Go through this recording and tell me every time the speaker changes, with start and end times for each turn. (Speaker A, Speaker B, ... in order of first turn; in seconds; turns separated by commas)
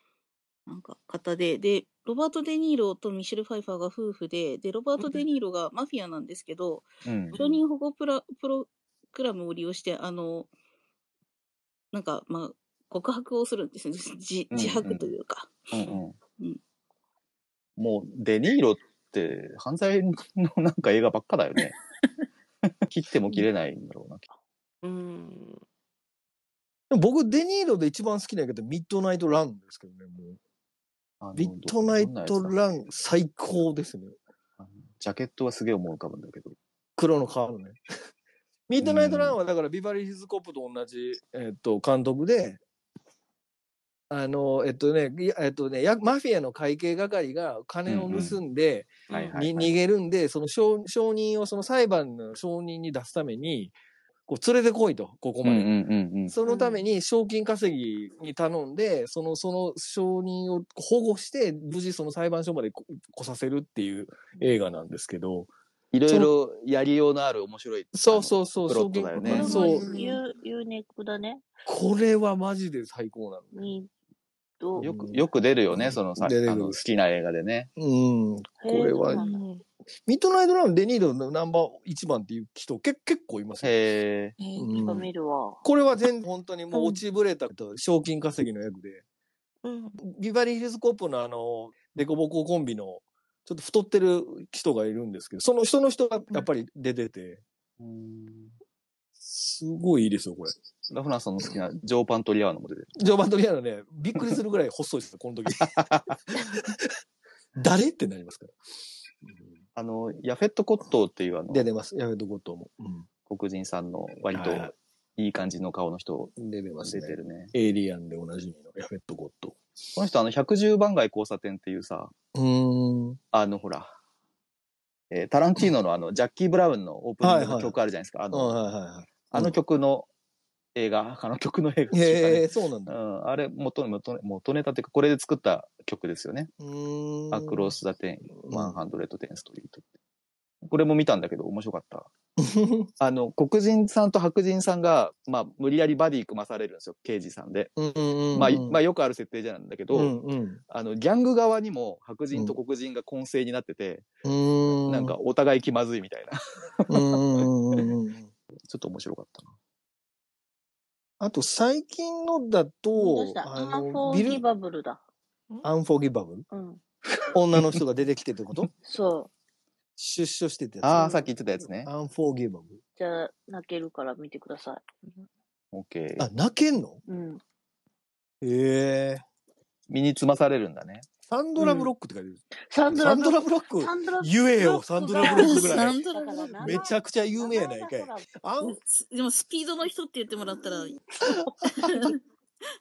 Speaker A: 0.7-10.5, Speaker B: 5.0-5.2, Speaker C: 7.0-7.4, Speaker B: 7.3-7.6, Speaker A: 11.9-15.7, Speaker C: 14.5-15.1, Speaker C: 15.7-16.2, Speaker C: 17.8-21.7, Speaker C: 22.9-24.2, Speaker B: 24.8-25.6, Speaker D: 26.9-30.4, Speaker C: 31.2-33.0, Speaker D: 31.4-34.1, Speaker C: 34.6-36.5, Speaker D: 37.0-37.8, Speaker D: 38.7-42.6, Speaker C: 38.8-39.4, Speaker D: 44.1-53.7, Speaker C: 47.9-48.4, Speaker B: 49.1-49.4, Speaker C: 49.1-49.7, Speaker D: 54.3-55.7, Speaker C: 55.4-56.3, Speaker D: 56.3-65.5, Speaker B: 56.4-56.9, Speaker C: 65.9-69.6, Speaker D: 67.9-69.9, Speaker E: 69.2-71.5, Speaker B: 69.3-70.2, Speaker D: 71.7-73.7, Speaker E: 73.5-73.9, Speaker E: 74.6-74.9, Speaker D: 74.8-76.8, Speaker C: 74.8-77.7, Speaker D: 77.8-79.2, Speaker E: 78.6-79.4, Speaker B: 79.1-79.6, Speaker D: 80.0-83.8, Speaker C: 83.6-84.3, Speaker B: 84.4-85.0, Speaker D: 84.6-85.1, Speaker E: 84.8-85.6, Speaker D: 85.6-89.0, Speaker B: 86.7-87.0, Speaker B: 89.6-90.0, Speaker D: 90.0-97.4, Speaker C: 97.8-98.5, Speaker D: 99.2-100.5, Speaker C: 100.9-102.9, Speaker D: 103.0-106.9, Speaker C: 105.6-106.2, Speaker D: 107.5-108.5, Speaker D: 109.2-109.6, Speaker C: 109.8-111.7, Speaker D: 111.5-113.1, Speaker C: 113.3-116.3, Speaker D: 114.3-114.7, Speaker D: 116.3-119.6, Speaker C: 116.8-117.5, Speaker C: 119.9-122.1, Speaker D: 122.3-123.2, Speaker C: 123.3-123.9, Speaker C: 125.1-128.6, Speaker D: 127.2-127.7, Speaker D: 128.3-129.6, Speaker C: 129.3-130.1, Speaker C: 130.7-136.5, Speaker D: 131.9-133.0, Speaker D: 136.6-137.7, Speaker C: 137.3-139.9, Speaker D: 138.3-138.8, Speaker C: 140.6-142.1, Speaker D: 142.4-142.9, Speaker C: 143.0-147.7, Speaker D: 147.8-148.8, Speaker C: 148.3-150.1, Speaker D: 149.9-150.6, Speaker C: 150.7-154.1, Speaker D: 152.3-152.6, Speaker D: 154.2-155.1, Speaker C: 154.9-157.4, Speaker D: 156.9-158.3, Speaker C: 158.6-159.5, Speaker D: 161.2-164.4, Speaker E: 162.9-165.0, Speaker D: 165.6-166.4, Speaker E: 166.5-166.8, Speaker D: 167.3-168.7, Speaker E: 168.8-169.3, Speaker D: 170.0-171.2, Speaker C: 170.8-171.9, Speaker D: 171.8-172.8, Speaker E: 173.0-174.8, Speaker C: 175.7-176.3, Speaker D: 176.2-177.0, Speaker E: 177.1-177.4, Speaker D: 178.4-179.2, Speaker C: 179.9-181.1, Speaker D: 181.2-186.0, Speaker B: 181.6-181.9, Speaker E: 182.7-188.3, Speaker A: 185.2-186.8, Speaker D: 186.6-188.8, Speaker A: 188.6-192.2, Speaker D: 191.2-192.0